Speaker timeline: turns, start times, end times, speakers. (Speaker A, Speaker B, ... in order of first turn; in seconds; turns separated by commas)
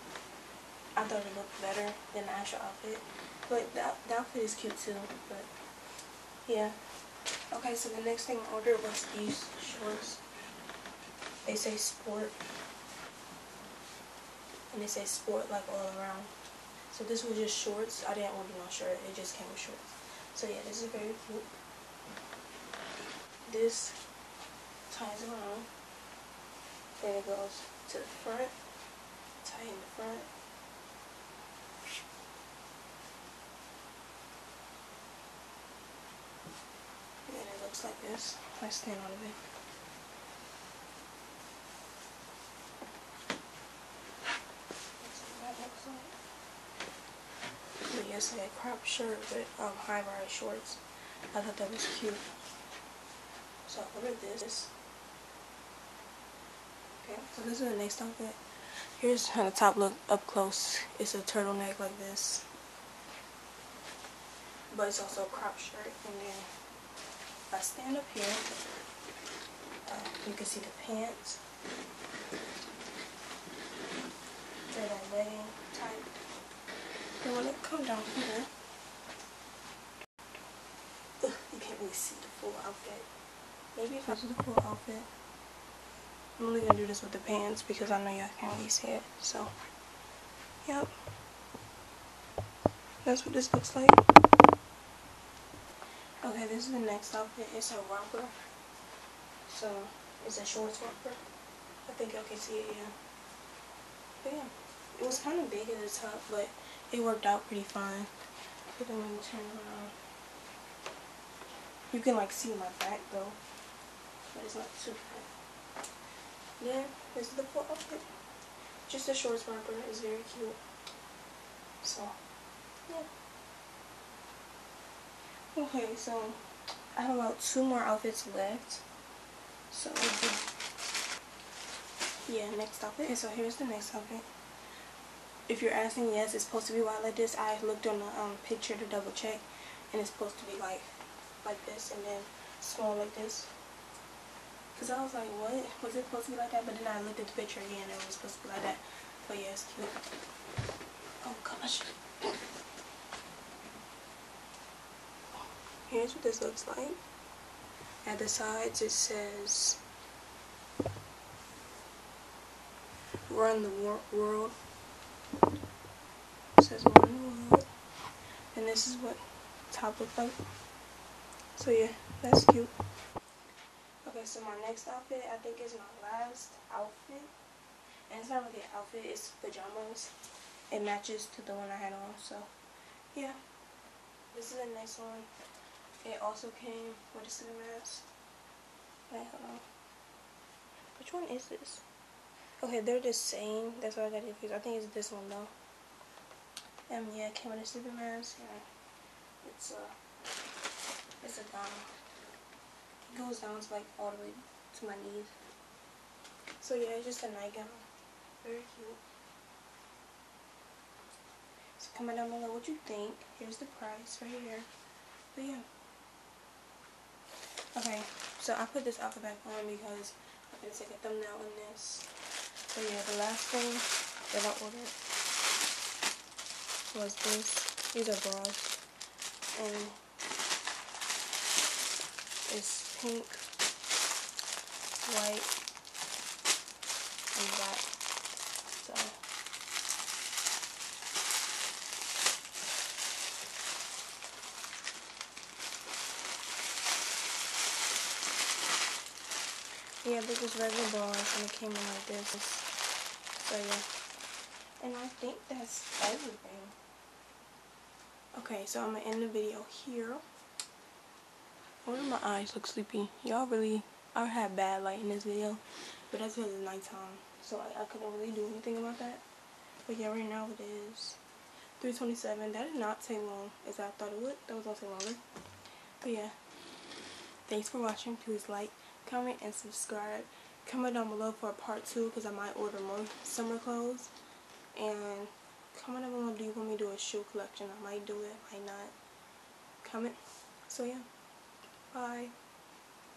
Speaker A: 0.9-5.5, Speaker A: 6.5-6.8, Speaker A: 7.5-10.2, Speaker A: 11.4-12.4, Speaker A: 14.7-16.3, Speaker A: 16.9-21.5, Speaker A: 23.5-24.0, Speaker A: 24.9-25.7, Speaker A: 27.0-28.5, Speaker A: 29.4-30.3, Speaker A: 37.3-39.4, Speaker A: 45.0-46.1, Speaker A: 47.9-50.8, Speaker A: 51.3-52.2, Speaker A: 53.6-54.7, Speaker A: 57.0-58.4, Speaker A: 59.0-62.4, Speaker A: 64.7-66.5, Speaker A: 67.5-68.5, Speaker A: 69.8-71.4, Speaker A: 74.7-76.1, Speaker A: 77.2-78.5, Speaker A: 81.2-83.1, Speaker A: 83.7-85.1, Speaker A: 86.4-89.5, Speaker A: 90.6-90.9, Speaker A: 93.0-94.0, Speaker A: 96.2-98.3, Speaker A: 99.5-101.2, Speaker A: 101.8-102.9, Speaker A: 104.2-108.1, Speaker A: 108.7-109.9, Speaker A: 111.9-113.4, Speaker A: 114.3-115.3, Speaker A: 116.6-118.0, Speaker A: 118.8-120.6, Speaker A: 121.8-122.2, Speaker A: 125.5-126.4, Speaker A: 126.9-128.8, Speaker A: 129.7-130.5, Speaker A: 132.3-134.2, Speaker A: 135.5-143.5, Speaker A: 144.7-149.9, Speaker A: 151.2-152.3, Speaker A: 155.9-157.0, Speaker A: 158.0-159.8, Speaker A: 163.3-164.6, Speaker A: 166.6-167.7, Speaker A: 168.5-170.4, Speaker A: 171.6-172.7, Speaker A: 174.0-177.3, Speaker A: 178.1-180.1, Speaker A: 180.7-182.5, Speaker A: 183.1-183.4, Speaker A: 184.3-185.3, Speaker A: 186.0-188.1, Speaker A: 189.1-189.7, Speaker A: 190.9-191.8, Speaker A: 192.6-195.5, Speaker A: 196.9-198.6, Speaker A: 199.4-199.9, Speaker A: 201.2-201.9, Speaker A: 203.1-205.3, Speaker A: 206.6-207.9, Speaker A: 208.4-209.0, Speaker A: 211.8-214.7, Speaker A: 215.3-215.7, Speaker A: 217.7-222.1, Speaker A: 222.7-224.9, Speaker A: 226.9-228.8, Speaker A: 229.5-229.9, Speaker A: 232.5-233.4, Speaker A: 235.0-235.5, Speaker A: 237.3-237.9, Speaker A: 238.8-239.1, Speaker A: 250.0-252.7, Speaker A: 253.4-253.8, Speaker A: 254.8-256.8, Speaker A: 258.3-260.2, Speaker A: 261.8-269.2, Speaker A: 269.9-271.2, Speaker A: 271.8-275.2, Speaker A: 276.0-276.3, Speaker A: 277.4-284.1, Speaker A: 284.7-288.9, Speaker A: 289.8-290.2, Speaker A: 290.7-291.1, Speaker A: 291.9-292.3